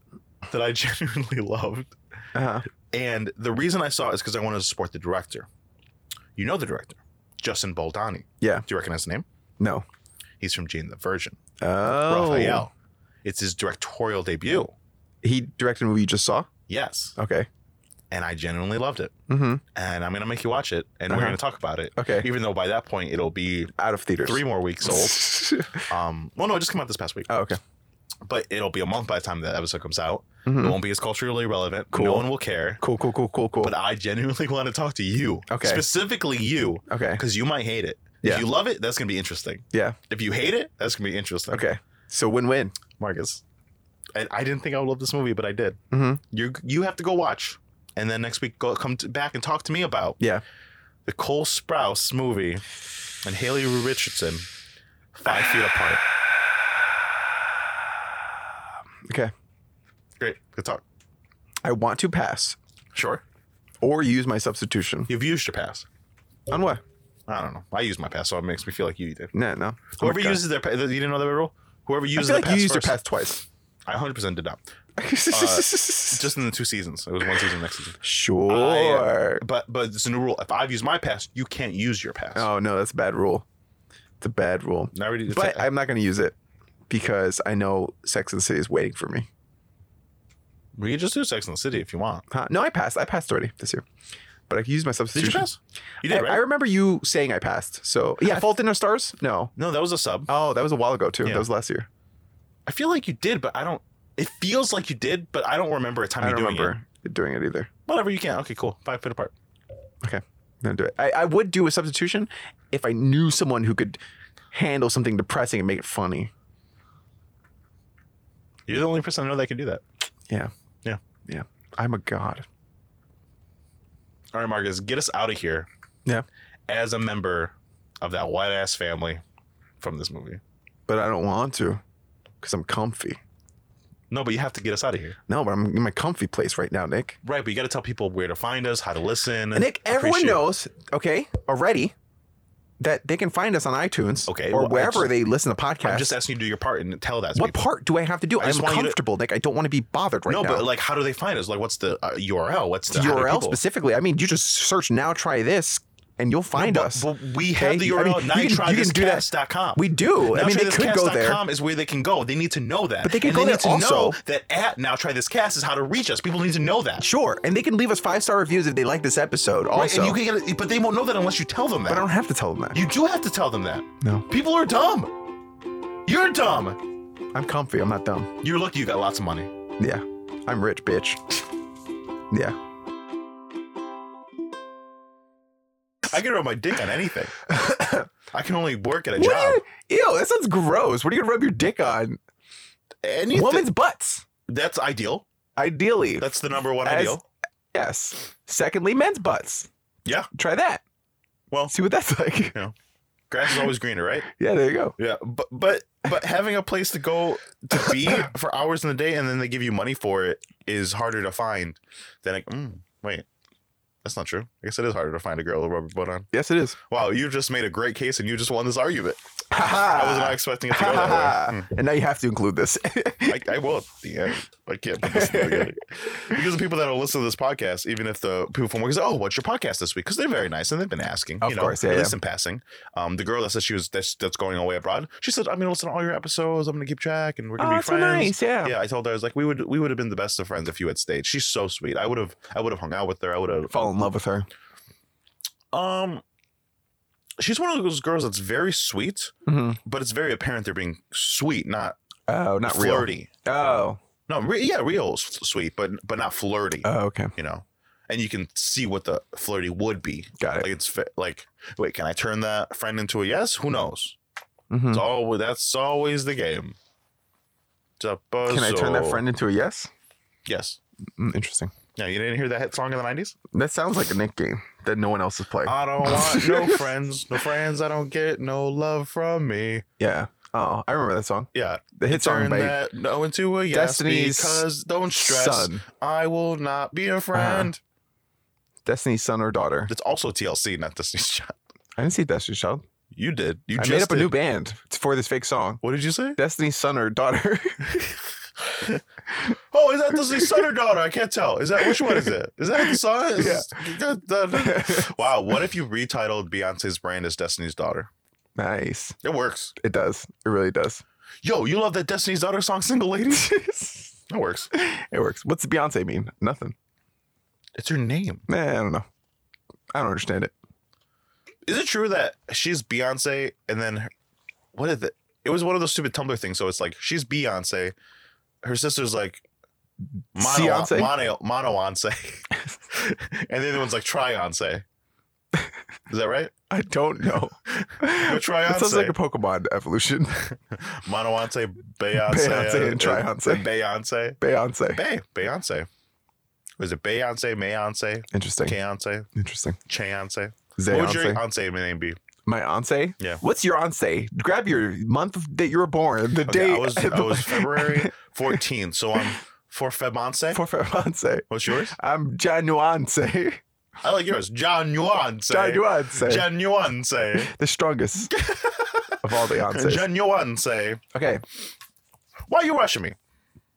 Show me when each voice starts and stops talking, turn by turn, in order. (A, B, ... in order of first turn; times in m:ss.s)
0:00.5-0:02.0 A
0:02.3-0:02.7 B
0:02.9-0:05.5 A
0:06.4-0:09.2 A
0:09.6-0:09.9 B
0:10.4-0:12.7 A
0:11.6-0:12.7 B
0:13.2-0:14.7 A
0:15.2-0:16.5 B
0:16.7-0:17.2 A
0:17.2-0:17.5 B
0:18.1-0:19.1 A
0:19.3-0:19.6 B
0:19.7-0:23.7 A
0:21.1-0:21.4 B
0:22.0-0:22.3 B
0:23.8-0:25.9 B
0:24.2-0:27.3 A
0:27.3-0:27.6 B
0:28.2-0:32.8 A
0:30.4-0:30.8 B
0:31.9-0:33.7 B
0:33.6-0:41.7 A
0:35.5-0:35.9 B
0:36.9-0:37.2 B
0:41.5-0:42.8 B
0:43.0-0:43.4 A
0:44.1-0:45.8 A
0:45.9-0:46.2 B
0:46.3-0:50.2 A
0:51.1-0:52.6 A
0:53.2-0:54.5 A
0:55.1-0:56.0 A
0:59.1-0:59.3 B
1:00.2-1:00.8 A
1:01.6-1:02.6 B
1:02.9-1:03.2 A
1:03.8-1:05.1 B
1:05.1-1:05.9 A
1:06.5-1:06.8 B
1:07.3-1:09.3 A
1:09.3-1:10.4 B
1:10.0-1:13.0 A
1:12.1-1:13.4 B
1:13.9-1:14.6 A
1:15.0-1:16.3 B
1:15.3-1:22.5 A
1:18.0-1:19.4 B
1:22.4-1:23.5 B
1:24.2-1:26.4 B
1:24.9-1:25.7 A
1:26.9-1:29.3 B
1:30.8-1:32.2 A
1:32.3-1:33.8 B
1:34.5-1:35.5 B
1:35.2-1:36.4 A
1:36.0-1:39.5 B
1:39.6-1:40.3 A
1:40.3-1:41.9 B
1:42.7-1:46.8 A
1:46.2-1:47.7 B
1:47.9-1:49.3 A
1:50.0-1:54.0 B
1:54.5-1:56.3 B
1:58.7-1:59.8 A
2:01.3-2:02.5 B
2:04.3-2:05.7 A
2:06.7-2:09.2 A
2:09.8-2:10.4 A
2:10.9-2:11.8 B
2:12.4-2:13.2 B
2:14.1-2:15.2 A
2:15.3-2:17.2 B
2:17.2-2:20.4 A
2:19.5-2:21.9 B
2:22.8-2:26.2 B
2:24.3-2:25.2 A
2:25.8-2:27.6 A
2:27.4-2:30.7 B
2:28.4-2:29.0 A
2:30.3-2:33.6 A
2:32.9-2:41.4 B
2:36.5-2:47.0 A
2:43.0-2:44.2 B
2:47.0-2:50.2 B
2:49.7-2:52.1 A
2:51.9-2:52.8 B
2:52.7-2:55.2 A
2:54.0-2:54.3 B
2:56.1-2:56.8 A
2:57.3-2:58.4 B
2:58.4-2:59.5 A
2:59.8-3:01.3 B
3:02.3-3:02.6 B
3:06.0-3:07.4 A
3:07.5-3:08.1 B
3:08.3-3:09.6 A
3:09.2-3:12.2 B
3:13.0-3:13.7 A
3:13.3-3:14.3 B
3:14.5-3:15.2 A
3:15.6-3:17.2 B
3:16.2-3:17.2 A
3:17.7-3:19.7 B
3:20.3-3:20.8 B
3:21.7-3:22.6 B
3:23.3-3:24.3 A
3:24.3-3:25.0 B
3:25.0-3:33.3 A
3:34.0-3:36.3 A
3:36.3-3:36.8 B
3:36.9-3:41.7 A
3:39.5-3:43.5 B
3:43.3-4:04.1 A
3:45.0-3:45.8 B
3:51.4-3:52.2 B
3:57.6-3:58.8 B
4:03.7-4:04.5 B
4:05.7-4:06.2 A
4:07.4-4:09.3 A
4:09.5-4:09.8 B
4:09.8-4:12.0 A
4:12.3-4:14.0 B
4:12.6-4:24.2 A
4:16.8-4:17.3 B
4:20.4-4:20.7 B
4:24.7-4:25.1 B
4:24.9-4:26.8 A
4:28.0-4:29.2 A
4:28.5-4:29.9 B
4:30.5-4:30.8 A
4:31.2-4:31.7 B
4:32.0-4:33.4 A
4:33.5-4:36.8 B
4:35.6-4:39.8 A
4:40.0-4:42.8 B
4:41.5-4:47.8 A
4:43.7-4:44.6 B
4:45.2-4:45.8 B
4:47.3-4:47.7 B
4:48.8-4:49.9 B
4:49.9-4:51.6 A
4:52.0-4:52.8 B
4:53.1-4:54.4 A
4:53.8-4:55.8 B
4:55.8-4:56.4 A
4:56.4-4:58.2 B
4:58.7-4:59.0 A
4:59.7-5:08.1 A
5:01.9-5:02.3 B
5:02.9-5:03.8 B
5:04.5-5:05.2 B
5:08.6-5:09.2 B
5:09.2-5:09.7 A
5:09.8-5:11.0 B
5:11.4-5:13.5 A
5:13.3-5:14.1 B
5:14.3-5:14.7 A
5:14.7-5:16.8 B
5:17.8-5:18.5 A
5:18.5-5:19.1 B
5:19.9-5:20.5 B
5:21.7-5:24.1 A
5:24.7-5:28.0 A
5:28.6-5:29.5 A
5:30.4-5:34.8 A
5:30.4-5:31.1 B
5:36.1-5:36.5 A
5:36.7-5:40.5 B
5:37.7-5:39.2 A
5:40.5-5:44.4 A
5:42.2-5:43.7 B
5:44.4-5:45.0 B
5:44.9-5:45.9 A
5:46.8-5:49.3 A
5:48.3-5:48.8 B
5:49.3-5:49.8 B
5:49.9-5:52.2 A
5:50.8-5:51.4 B
5:52.5-5:58.1 B
5:56.4-6:00.6 A
6:00.5-6:03.6 B
6:01.5-6:02.0 A
6:04.0-6:07.5 A
6:05.5-6:06.5 B
6:07.4-6:08.3 B
6:08.3-6:11.1 A
6:09.2-6:10.1 B
6:11.1-6:11.4 B
6:12.5-6:13.2 A